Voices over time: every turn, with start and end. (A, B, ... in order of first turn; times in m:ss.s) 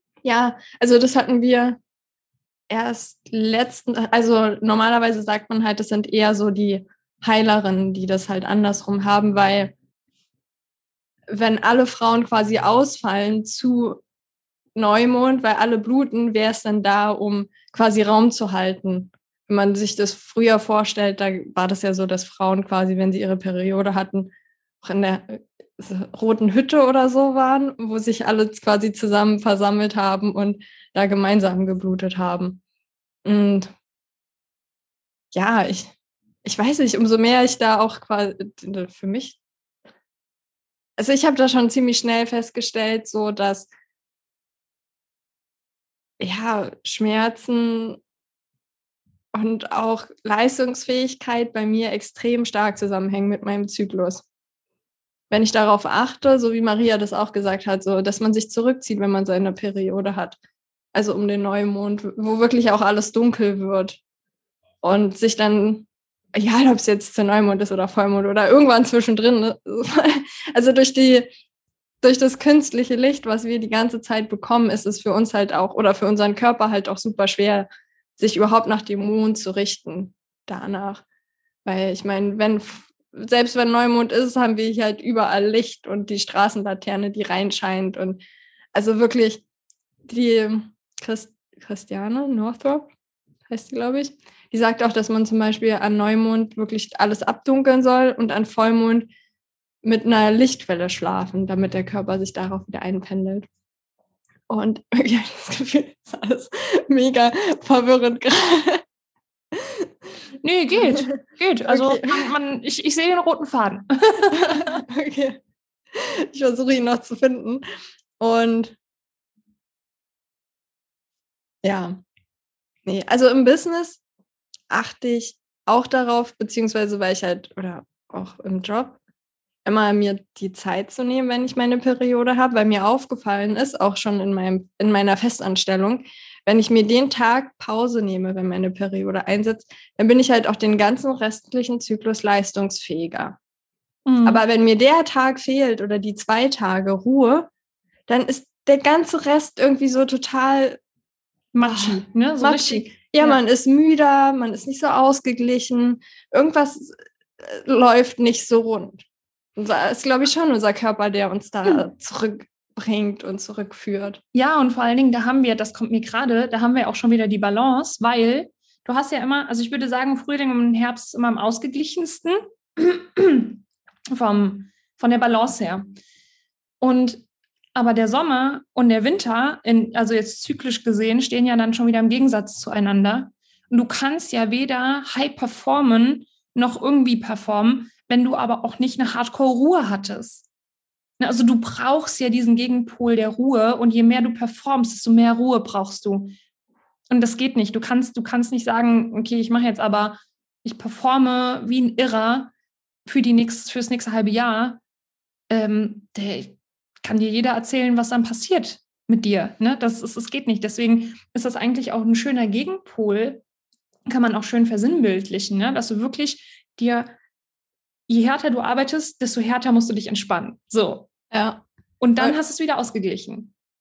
0:00.2-0:01.8 A
0:02.7-0:09.7 A
0:11.3-0:14.0 A
0:14.8-0:24.3 A
0:24.8-0:32.6 A
0:33.2-0:33.7 A
0:35.3-0:35.9 A
0:36.4-0:39.4 A
0:41.0-0:43.7 A
0:46.2-0:48.0 A
0:49.3-0:54.2 A
0:55.3-1:00.4 A
1:00.9-1:04.0 A
1:04.8-1:11.3 A
1:12.0-1:21.0 A
1:21.6-1:28.2 A
1:28.7-1:29.4 A
1:30.1-1:32.9 A
1:33.5-1:39.1 A
1:39.8-1:43.5 A
1:44.5-1:48.8 A
1:49.6-1:49.9 A
1:50.4-1:54.8 B
1:50.8-1:52.3 A
1:54.5-1:55.4 A
1:55.9-1:57.6 A
1:58.2-1:58.8 A
2:01.6-2:02.0 A
2:02.8-2:04.0 A
2:04.7-2:09.0 A
2:09.6-2:23.4 A
2:24.0-2:24.4 B
2:24.2-2:27.5 A
2:28.1-2:30.8 A
2:31.5-2:33.4 B
2:31.6-2:39.0 A
2:39.6-2:44.2 A
2:44.3-2:53.6 B
2:54.1-2:55.9 B
2:56.8-2:57.2 B
2:57.7-3:10.5 B
3:11.2-3:16.3 B
3:17.1-3:22.5 B
3:23.0-3:24.8 B
3:25.5-3:33.4 B
3:34.1-3:37.1 B
3:38.1-3:41.1 B
3:41.3-3:41.6 A
3:42.0-3:43.5 B